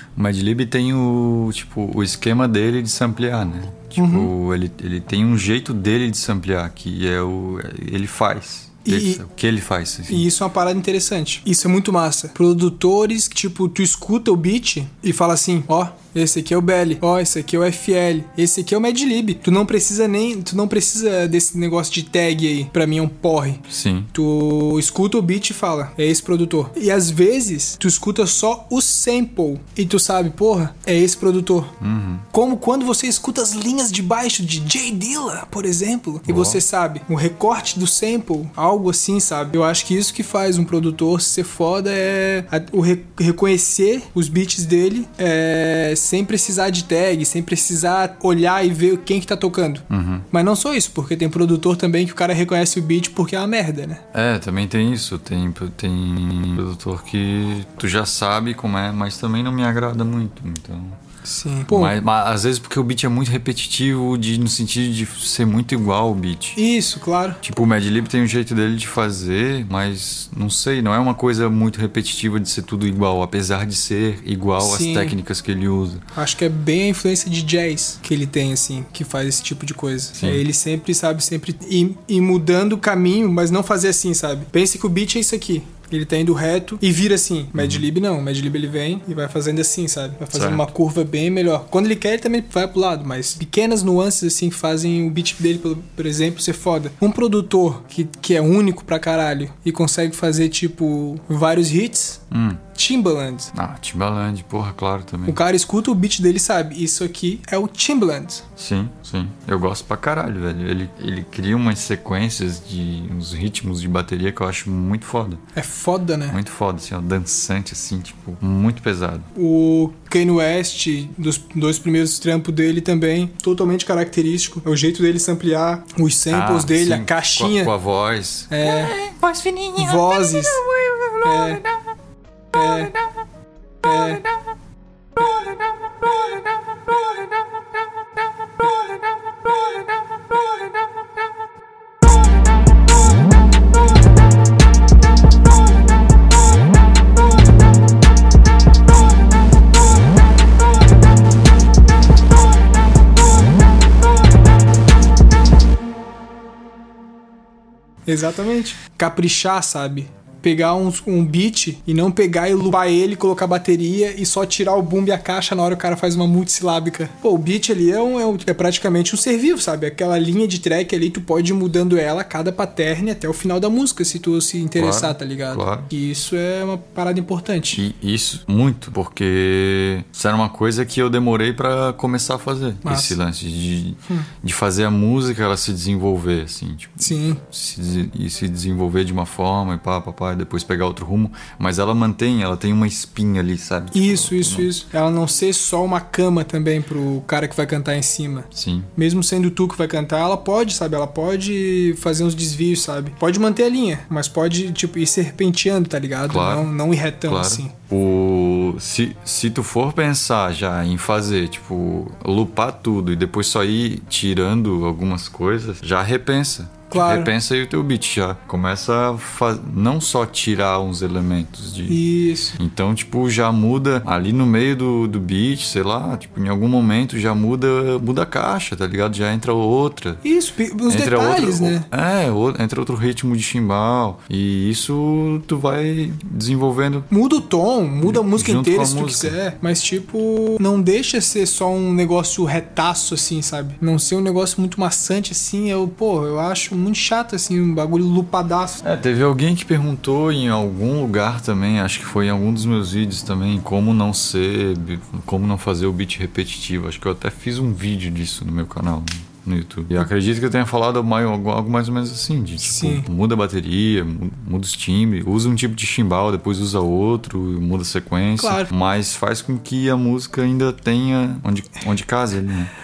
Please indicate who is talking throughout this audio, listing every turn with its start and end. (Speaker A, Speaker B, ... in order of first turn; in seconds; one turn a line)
Speaker A: 0.1-10.2
Speaker B: 4.0-4.3
Speaker B: 8.8-9.2
Speaker B: 10.1-31.7
Speaker A: 23.7-24.1
Speaker A: 31.8-32.2
Speaker B: 32.3-54.0
Speaker A: 36.3-36.6
Speaker A: 49.9-50.2
Speaker A: 54.1-61.0
Speaker B: 61.2-62.0
Speaker A: 61.7-66.6
Speaker B: 66.5-67.4
Speaker A: 67.4-76.0
Speaker B: 74.6-75.2
Speaker B: 76.1-102.2
Speaker A: 80.1-80.4
Speaker A: 87.5-87.8
Speaker A: 90.3-90.7
Speaker A: 102.3-102.6
Speaker B: 102.7-103.5
Speaker A: 103.5-105.4
Speaker B: 105.3-108.4
Speaker A: 108.5-115.4
Speaker B: 115.5-116.4
Speaker A: 116.3-119.3
Speaker B: 119.3-127.7
Speaker A: 126.3-131.5
Speaker B: 128.5-129.0
Speaker B: 129.8-130.6
Speaker B: 131.2-131.7
Speaker B: 132.5-133.0
Speaker B: 133.8-134.3
Speaker B: 158.1-177.8
Speaker A: 174.8-175.9
Speaker A: 177.7-194.7
Speaker B: 182.8-183.2
Speaker B: 187.0-187.4
Speaker B: 193.9-207.7
Speaker A: 198.5-198.9
Speaker A: 206.3-206.7
Speaker A: 207.2-222.0
Speaker B: 216.9-217.3
Speaker B: 221.9-222.6
Speaker A: 222.6-230.2
Speaker B: 230.2-231.9
Speaker A: 230.9-237.1
Speaker B: 237.1-248.8
Speaker A: 238.0-239.3
Speaker A: 248.8-272.7
Speaker B: 262.6-263.1
Speaker B: 268.4-268.7